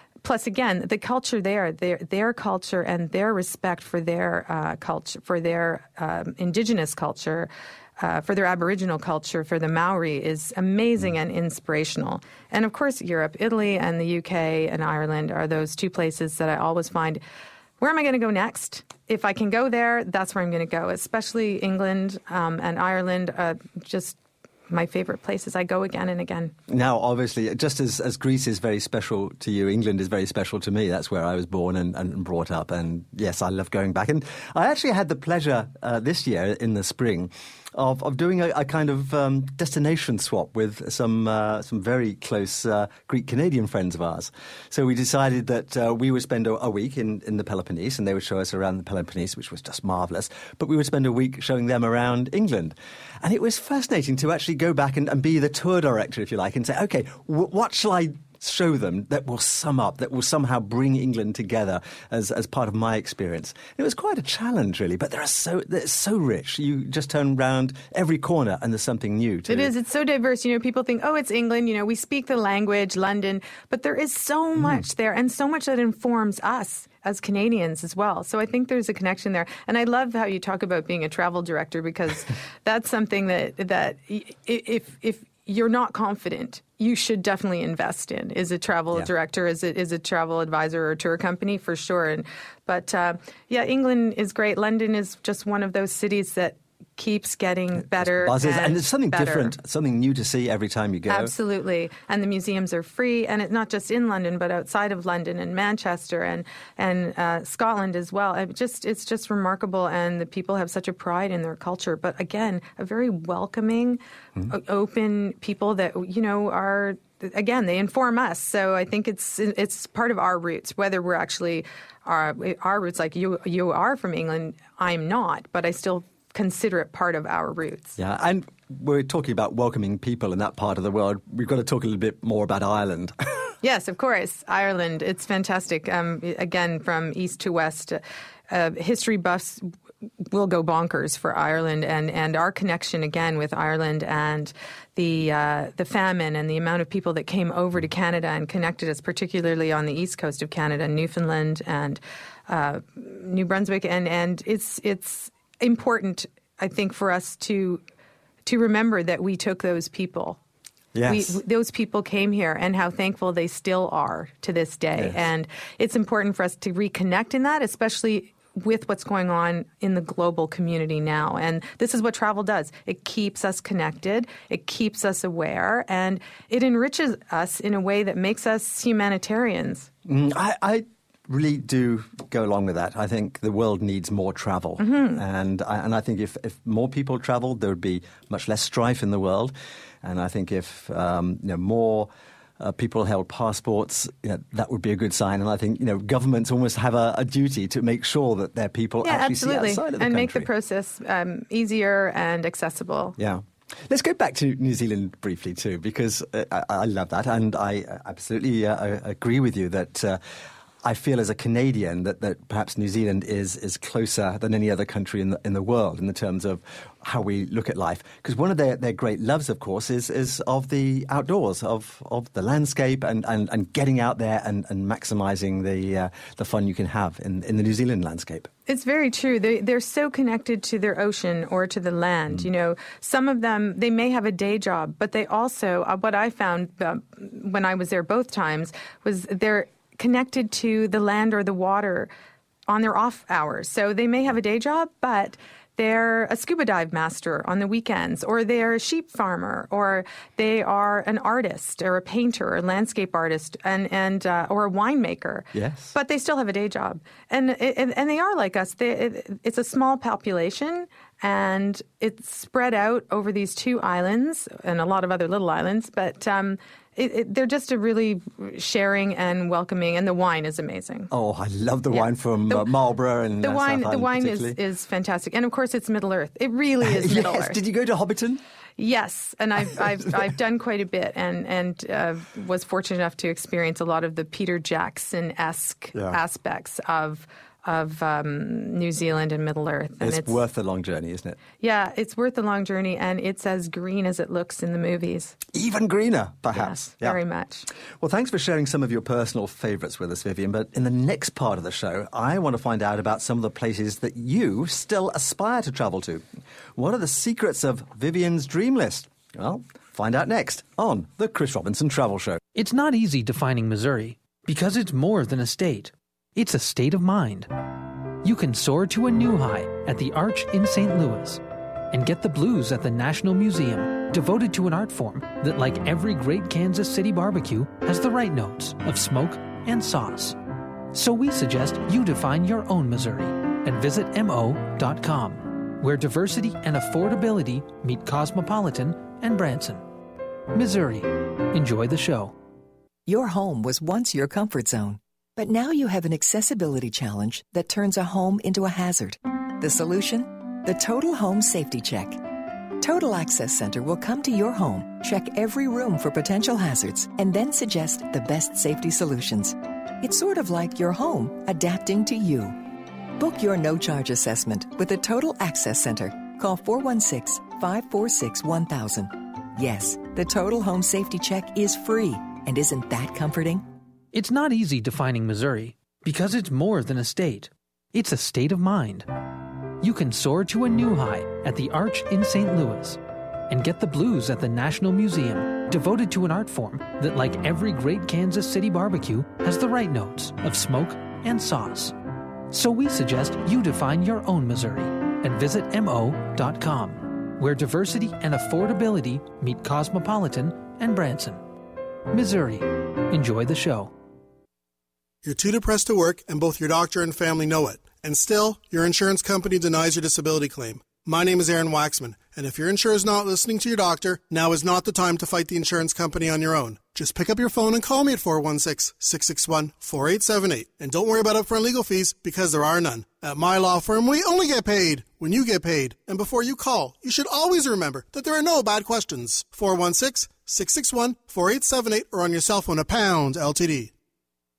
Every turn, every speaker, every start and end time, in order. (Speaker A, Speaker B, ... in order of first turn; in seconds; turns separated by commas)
Speaker A: 0.2-17.2, Speaker A: 17.8-24.2, Speaker A: 24.7-26.5, Speaker B: 26.7-69.7, Speaker A: 69.5-99.5, Speaker B: 74.6-74.8, Speaker B: 97.9-101.3, Speaker A: 101.1-128.0, Speaker B: 128.0-133.1, Speaker A: 133.6-139.7, Speaker A: 140.2-157.8, Speaker A: 158.4-160.4, Speaker B: 160.9-161.4, Speaker A: 161.1-179.9, Speaker B: 180.1-200.5, Speaker A: 184.8-185.2, Speaker A: 199.0-203.2, Speaker B: 203.2-210.2, Speaker B: 210.8-228.5, Speaker A: 228.7-242.1, Speaker A: 242.7-271.1, Speaker B: 255.5-255.9, Speaker B: 271.1-274.6, Speaker A: 271.9-272.7, Speaker A: 273.4-277.6, Speaker B: 276.8-278.4, Speaker A: 278.8-290.4, Speaker B: 285.9-286.2, Speaker B: 290.0-291.4, Speaker A: 291.6-295.4, Speaker B: 295.5-297.2, Speaker A: 296.5-297.7, Speaker B: 298.0-306.2, Speaker B: 306.8-312.4, Speaker C: 312.5-317.5, Speaker C: 318.2-321.4, Speaker C: 321.9-330.4, Speaker C: 330.9-339.8, Speaker C: 340.5-342.3, Speaker D: 343.1-352.2, Speaker D: 352.8-362.6, Speaker D: 363.1-373.6, Speaker C: 374.1-379.1, Speaker C: 379.8-392.0, Speaker C: 392.5-401.4, Speaker C: 402.1-403.9, Speaker E: 405.2-433.9